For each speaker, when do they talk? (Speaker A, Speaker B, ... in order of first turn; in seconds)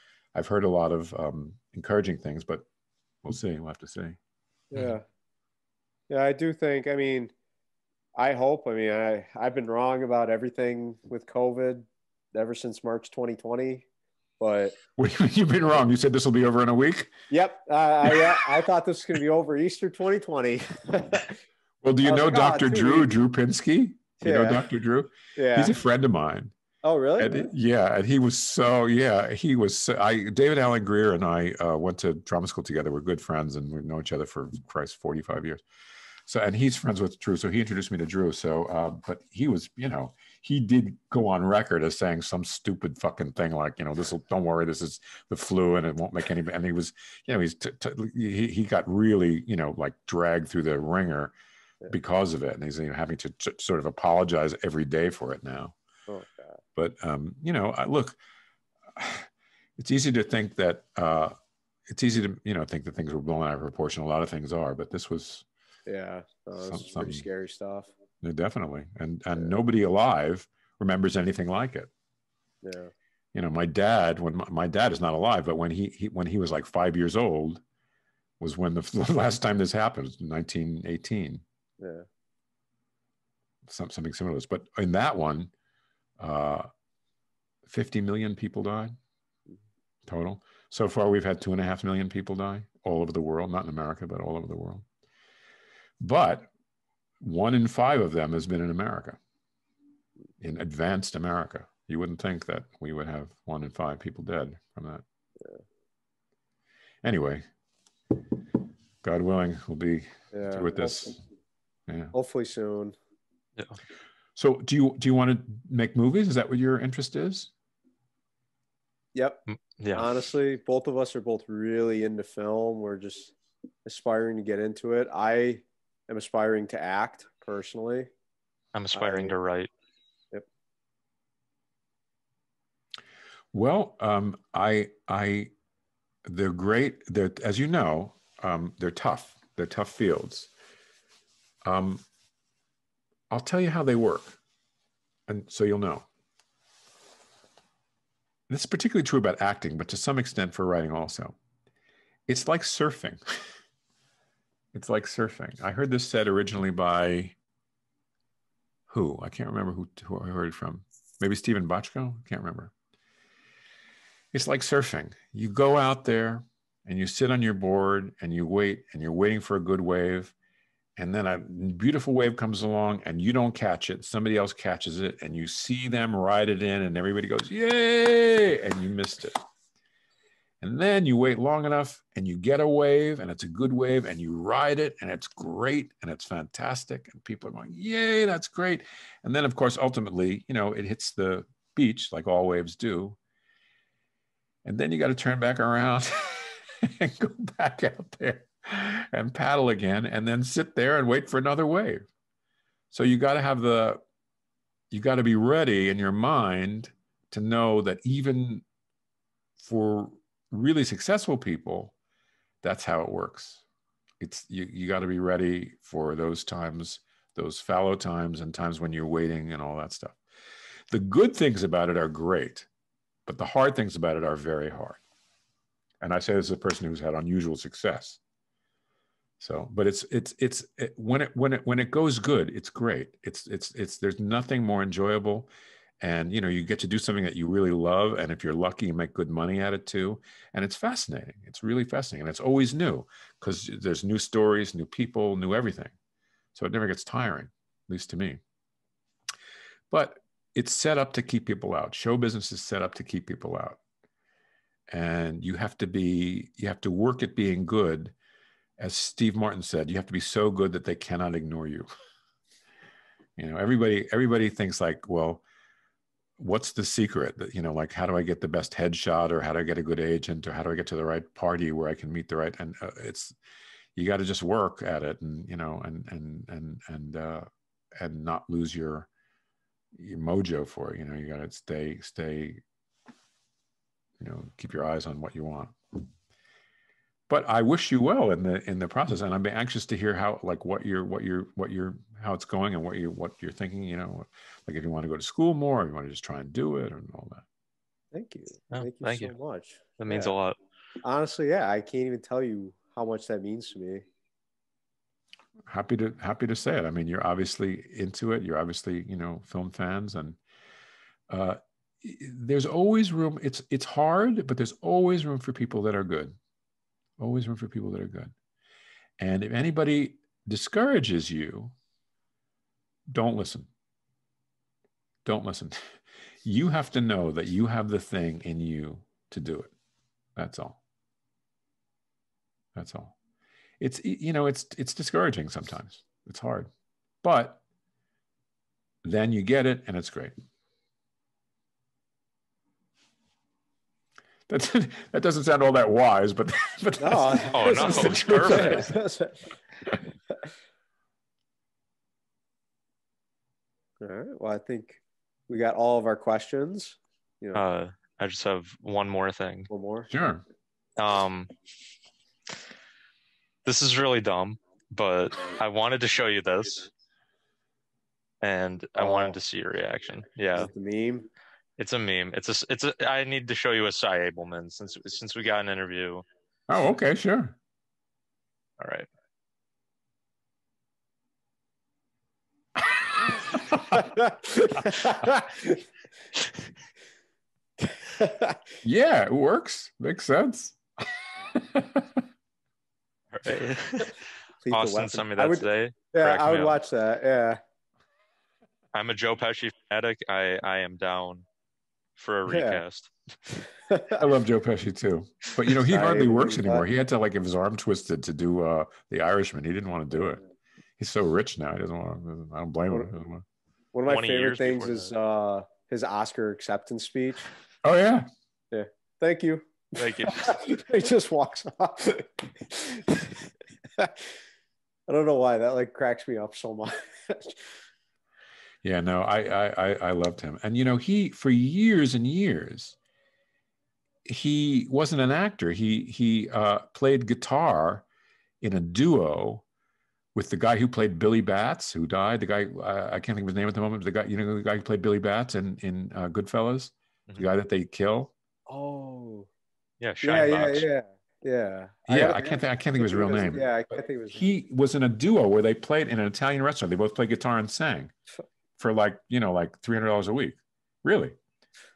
Speaker A: 0.3-2.7, 3.2-4.2, 15.0-17.1, 18.1-18.5, 21.8-26.5, 27.2-35.6, 36.3-51.3, 51.9-55.8, 56.8-58.2, 59.0-61.3, 61.9-65.5, 66.6-67.3, 68.2-71.9, 73.3-77.6, 78.4-81.4, 83.7-85.5, 86.2-86.7, 87.7-88.9, 90.1-94.8, 96.0-96.5, 97.2-99.2, 100.4-105.0, 107.0-107.4, 109.0-111.2, 111.9-112.1, 114.4-117.5, 133.5-135.5, 136.3-140.5, 141.6-142.0, 143.3-144.4, 145.3-146.1, 148.5-151.4, 152.3-153.2, 154.7-157.4, 158.9-162.7, 164.3-170.3, 171.0-179.4, 180.6-193.2, 194.6-202.1, 202.9-204.0, 204.9-208.6, 209.6-211.9, 212.6-213.7, 214.2-220.2, 220.9-222.7, 223.3-225.0, 226.0-228.2, 229.4-245.9, 246.6-248.4, 249.9-253.8, 254.9-258.1, 258.8-261.9, 263.4-265.4, 266.4-273.4, 274.0-279.1, 279.9-282.6, 284.2-286.1, 287.3-297.4, 305.7-310.4, 311.3-316.4, 317.2-318.3, 319.2-321.8, 323.1-323.7, 325.2-329.7, 330.4-330.8, 332.8-333.2, 333.8-336.7, 337.2-337.6, 339.0-340.3, 344.5-348.9, 360.1-360.4, 376.7-377.6, 382.8-385.3, 388.8-392.2, 404.1-410.4, 411.0-413.4, 417.8-418.3, 428.8-433.0, 434.2-438.1, 438.6-439.6, 440.4-448.3, 452.1-458.1, 458.8-461.4
Speaker B: 4.7-5.0, 6.1-7.3, 8.2-13.9, 14.4-14.8, 17.3-21.4, 22.0-23.1, 24.2-24.6, 25.4-25.7, 26.8-27.5, 56.1-56.6, 65.9-67.9, 72.6-72.9, 81.8-82.1, 110.3-111.0, 112.1-113.0, 119.2-119.4, 120.0-123.3, 123.8-128.1, 128.9-129.3, 298.1-300.4, 301.0-304.1, 347.0-349.5, 354.0-357.6, 359.7-360.1, 369.0-369.4, 370.6-371.3, 383.9-385.6, 387.8-388.6, 393.5-394.1, 394.6-397.6, 402.5-402.8, 403.9-404.2, 405.9-406.8, 413.9-417.5, 418.7-424.3, 425.1-427.7, 448.7-449.5, 450.2-454.4
Speaker C: 119.8-120.1, 128.7-129.7, 298.7-299.3, 300.0-300.6, 347.5-348.9, 357.6-359.7, 361.0-361.5, 363.6-366.9, 368.4-370.7, 371.8-376.2, 378.8-379.1, 393.3-394.2, 394.7-396.8, 398.9-401.5, 402.2-403.1, 414.1-415.1, 420.0-420.5, 450.0-450.9